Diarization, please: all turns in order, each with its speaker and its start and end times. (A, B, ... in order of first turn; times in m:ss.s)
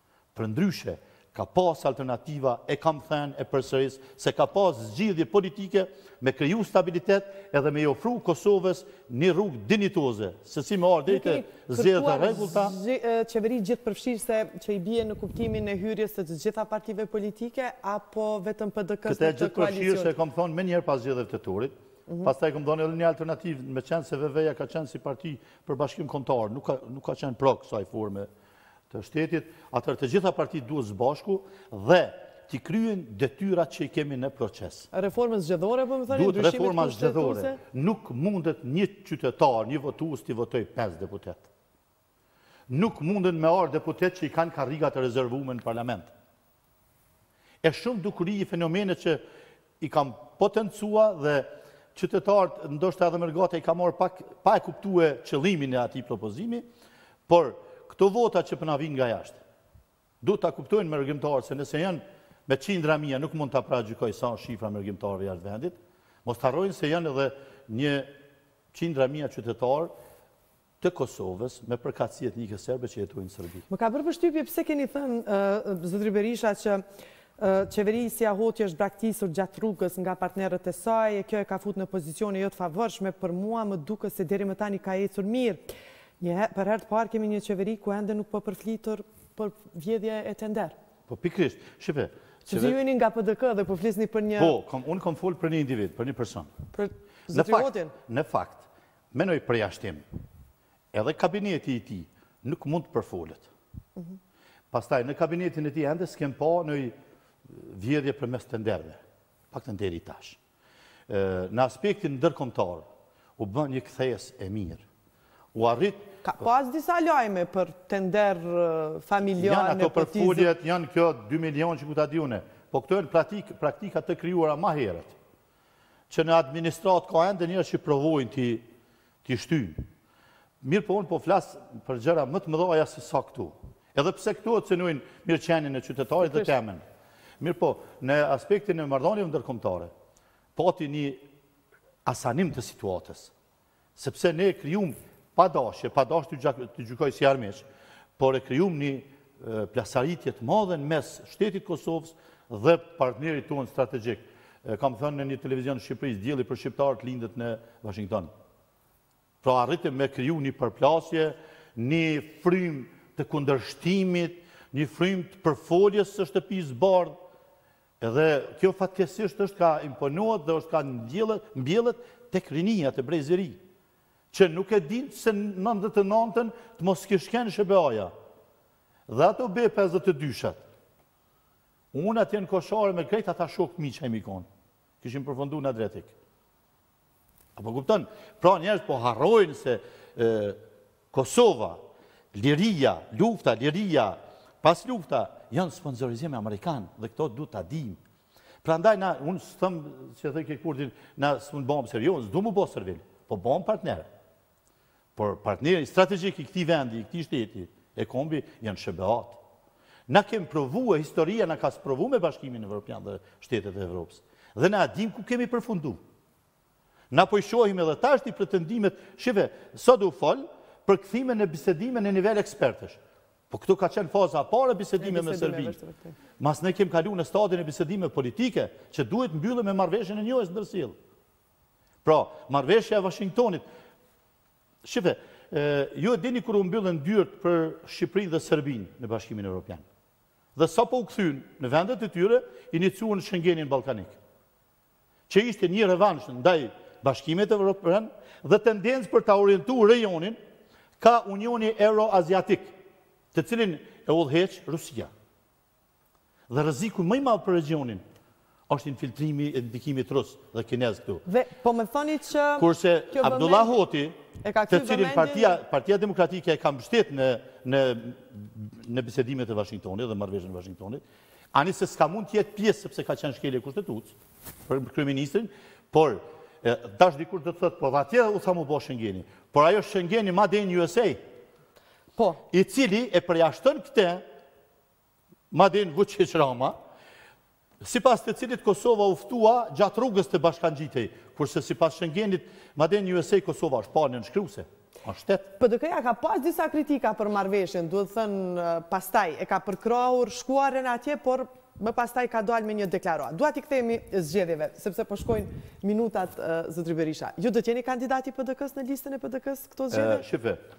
0:00.4-0:12.8 A
0:11.1-0:20.1 B
0:19.1-0:28.3 A
0:28.9-0:34.9 A
0:34.9-0:37.6 B
0:36.1-0:41.5 A
0:42.7-0:46.1 A
0:47.6-0:49.2 A
0:49.8-0:56.6 A
0:57.3-0:59.4 A
1:00.2-1:08.1 A
1:08.7-1:09.9 A
1:10.8-1:13.7 A
1:13.7-1:16.8 B
1:17.4-1:25.6 B
1:26.2-1:30.8 B
1:31.1-1:32.8 A
1:32.5-1:34.6 B
1:34.4-1:36.5 A
1:36.7-1:37.9 B
1:37.3-1:40.0 A
1:40.9-1:43.5 A
1:44.7-1:47.0 A
1:47.5-1:49.0 A
1:49.5-1:50.4 A
1:51.1-1:52.9 A
1:53.4-1:54.8 A
1:55.5-1:56.1 A
1:56.2-2:00.5 B
1:59.4-2:05.2 A
2:06.1-2:08.7 A
2:09.2-2:09.8 A
2:10.6-2:16.8 A
2:17.4-2:19.9 A
2:20.6-2:21.2 A
2:22.0-2:23.3 A
2:24.0-2:27.6 A
2:28.2-2:38.3 A
2:39.4-2:47.2 A
2:48.0-2:53.6 A
2:54.3-2:58.1 A
2:59.1-3:00.6 A
3:01.9-3:04.5 A
3:05.0-3:06.1 A
3:07.6-3:10.6 A
3:11.1-3:11.8 A
3:12.3-3:18.0 A
3:18.6-3:24.1 A
3:25.2-3:29.4 A
3:30.1-3:36.0 A
3:37.1-3:43.0 A
3:43.5-3:45.8 A
3:45.0-3:46.2 B
3:46.4-3:51.0 A
3:52.0-3:53.6 A
3:54.8-3:59.8 A
4:00.6-4:04.2 A
4:05.3-4:10.4 A
4:11.0-4:12.8 A
4:13.3-4:15.1 A
4:16.5-4:18.0 A
4:18.7-4:21.2 A
4:21.3-4:23.7 B
4:22.6-4:24.2 A
4:24.4-4:25.6 B
4:24.7-4:34.2 A
4:34.7-4:41.2 A
4:42.2-4:42.4 B
4:42.5-4:44.2 A
4:45.5-4:46.8 A
4:47.8-4:55.5 A
4:55.6-5:10.2 B
5:09.9-5:10.6 A